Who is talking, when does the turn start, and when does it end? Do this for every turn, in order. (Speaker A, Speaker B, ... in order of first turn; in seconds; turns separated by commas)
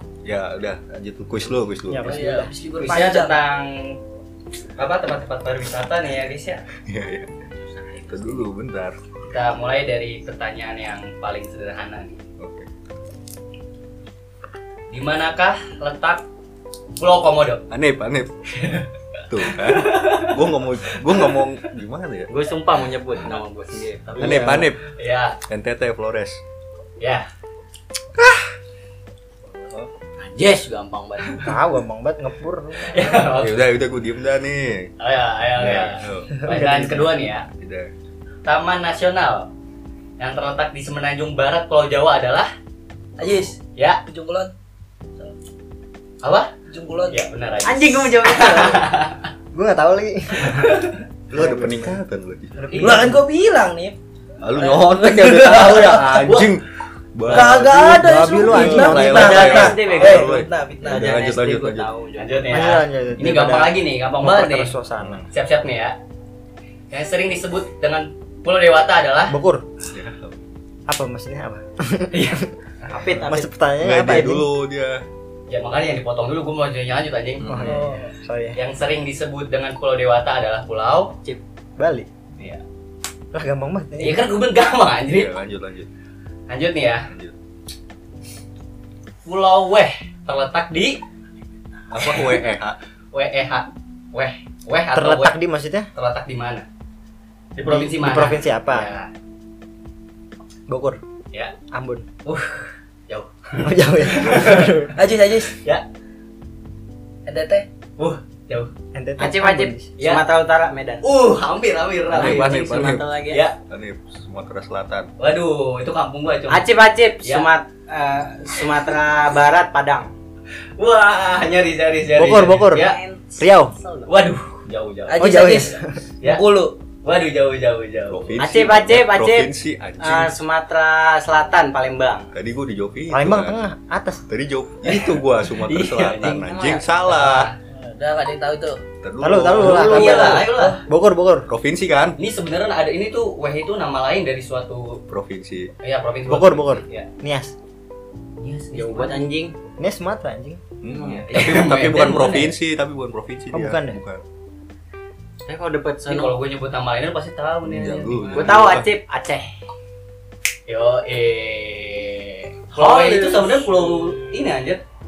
Speaker A: 0.2-2.2, Speaker B: 1.9-2.5, Speaker C: 2.1-3.4, Speaker D: 2.8-4.0, Speaker D: 4.8-6.6, Speaker A: 6.9-7.3, Speaker E: 7.5-8.5, Speaker A: 8.1-9.0, Speaker D: 9.3-12.2, Speaker A: 12.4-12.7, Speaker D: 14.9-16.2, Speaker D: 17.0-17.6, Speaker A: 17.7-18.3, Speaker D: 18.6-21.4, Speaker A: 19.3-22.3, Speaker E: 22.3-24.7, Speaker B: 24.2-24.7, Speaker A: 24.2-24.9, Speaker D: 24.9-25.4, Speaker A: 25.5-26.4, Speaker D: 27.0-27.3, Speaker A: 28.2-28.5, Speaker A: 29.5-29.9, Speaker E: 30.2-31.4, Speaker B: 31.4-33.3, Speaker D: 32.8-33.7, Speaker A: 33.4-34.9, Speaker D: 35.0-37.5, Speaker A: 35.6-36.4, Speaker B: 36.4-37.1, Speaker A: 37.6-37.9, Speaker D: 38.5-39.5, Speaker D: 40.2-42.5, Speaker C: 43.2-44.5, Speaker D: 43.8-44.0, Speaker D: 46.2-46.5, Speaker C: 46.7-47.2, Speaker D: 47.1-49.3, Speaker E: 47.6-48.9, Speaker B: 49.5-50.6, Speaker D: 50.4-51.0, Speaker A: 51.3-52.7, Speaker B: 51.3-52.0, Speaker B: 52.6-53.2, Speaker D: 52.7-53.1, Speaker C: 52.7-54.0, Speaker A: 54.4-61.9, Speaker C: 54.6-56.5, Speaker C: 57.3-61.1, Speaker B: 57.3-59.7, Speaker E: 58.9-62.5, Speaker D: 62.2-64.7, Speaker B: 62.5-65.2, Speaker A: 65.0-65.3, Speaker D: 65.3-66.0, Speaker D: 66.9-69.4, Speaker B: 69.3-69.7, Speaker A: 69.8-70.4, Speaker B: 70.9-72.5, Speaker D: 72.1-72.4, Speaker E: 72.8-73.5, Speaker B: 73.1-74.5, Speaker A: 73.8-75.0, Speaker D: 75.5-77.8, Speaker A: 77.4-77.8, Speaker B: 77.5-78.6, Speaker C: 77.6-78.1, Speaker D: 78.5-81.2, Speaker B: 81.8-82.1, Speaker B: 83.3-84.4, Speaker D: 84.0-85.3, Speaker A: 85.1-85.9, Speaker D: 86.5-87.1, Speaker A: 87.1-87.3, Speaker D: 89.2-91.0, Speaker A: 91.9-92.8, Speaker D: 92.0-92.3, Speaker D: 93.1-95.3, Speaker B: 94.9-95.9, Speaker D: 96.0-96.7, Speaker D: 97.6-99.1, Speaker B: 97.6-99.0, Speaker B: 100.7-101.0, Speaker B: 101.7-102.1, Speaker D: 102.2-104.8, Speaker B: 103.6-105.0, Speaker C: 105.0-105.6, Speaker D: 105.5-105.8, Speaker C: 107.3-107.7, Speaker D: 108.0-108.7, Speaker B: 108.9-109.9, Speaker E: 109.2-111.0, Speaker D: 110.0-110.2, Speaker D: 111.0-113.6, Speaker A: 112.1-113.1, Speaker E: 112.1-113.4, Speaker A: 113.7-115.1, Speaker D: 115.2-117.5, Speaker E: 116.5-120.1, Speaker D: 120.8-123.0, Speaker B: 122.2-123.8, Speaker E: 122.7-124.1, Speaker D: 124.1-125.4, Speaker C: 125.1-126.8, Speaker B: 125.2-126.0, Speaker D: 127.0-128.4, Speaker A: 128.1-130.3, Speaker E: 128.4-132.3, Speaker A: 132.3-133.6, Speaker B: 133.1-134.2, Speaker A: 134.3-137.5, Speaker D: 134.8-136.4, Speaker E: 136.2-136.9, Speaker D: 137.0-137.6, Speaker C: 137.7-138.8, Speaker A: 139.0-140.5, Speaker B: 139.2-141.5, Speaker D: 139.6-140.8, Speaker C: 139.8-140.8, Speaker A: 141.5-142.2, Speaker D: 142.2-145.0, Speaker A: 145.1-145.7, Speaker D: 145.8-147.1, Speaker B: 146.3-147.5, Speaker D: 148.4-149.3, Speaker E: 148.7-149.6, Speaker B: 149.8-150.6, Speaker A: 150.8-154.2, Speaker E: 150.9-151.9, Speaker D: 151.1-152.6, Speaker B: 153.5-154.0, Speaker E: 155.5-156.3, Speaker D: 156.1-158.7, Speaker A: 157.7-158.9, Speaker E: 158.3-159.6, Speaker D: 160.7-164.8, Speaker E: 162.8-164.4